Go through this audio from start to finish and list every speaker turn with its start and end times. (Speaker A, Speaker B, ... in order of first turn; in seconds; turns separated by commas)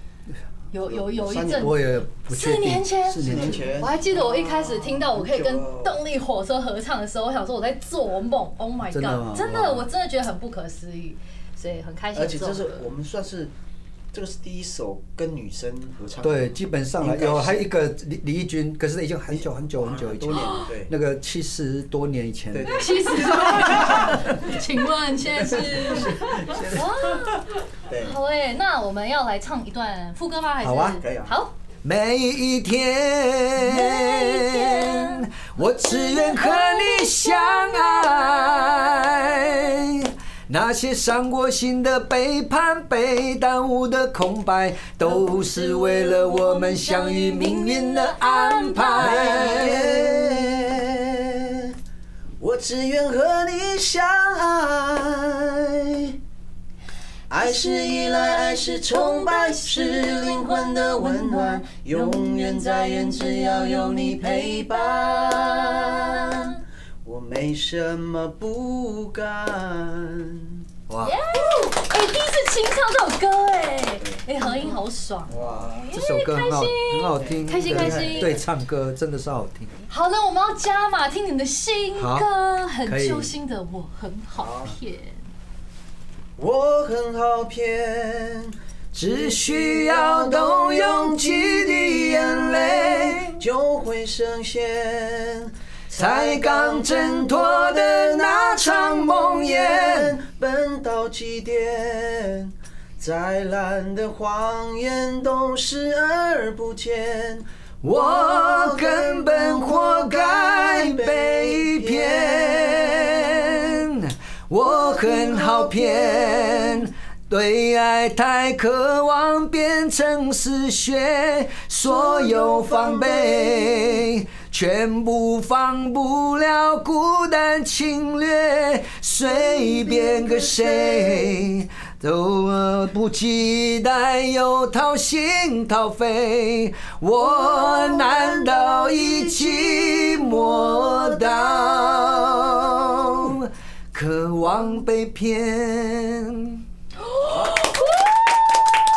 Speaker A: 0.7-12.8, Speaker B: 0.8-1.8, Speaker C: 1.5-3.7, Speaker B: 3.2-6.0, Speaker C: 8.8-9.9, Speaker B: 12.1-13.5, Speaker B: 14.1-17.7, Speaker C: 16.2-24.2, Speaker B: 19.3-20.9, Speaker A: 20.3-20.6, Speaker B: 22.5-24.2, Speaker A: 22.7-31.5, Speaker B: 25.5-26.9, Speaker B: 27.9-28.2, Speaker C: 30.6-31.0, Speaker B: 31.0-31.4, Speaker C: 31.8-50.5, Speaker A: 33.6-35.3, Speaker A: 35.8-38.8, Speaker A: 45.0-49.7, Speaker B: 49.0-51.7, Speaker B: 52.4-56.1, Speaker B: 57.3-70.6, Speaker A: 57.5-66.5, Speaker C: 70.9-71.2, Speaker A: 71.0-78.4, Speaker B: 74.0-74.6, Speaker B: 75.3-75.8, Speaker C: 75.9-79.7, Speaker B: 77.1-78.4, Speaker A: 79.9-85.2, Speaker C: 82.0-82.3, Speaker C: 82.8-83.3, Speaker B: 84.4-84.8, Speaker B: 86.4-113.8, Speaker C: 88.9-93.4, Speaker C: 95.9-100.1, Speaker C: 107.8-146.6, Speaker B: 115.0-116.4, Speaker A: 122.3-123.5, Speaker B: 129.5-131.3, Speaker A: 147.0-148.6, Speaker B: 147.2-147.6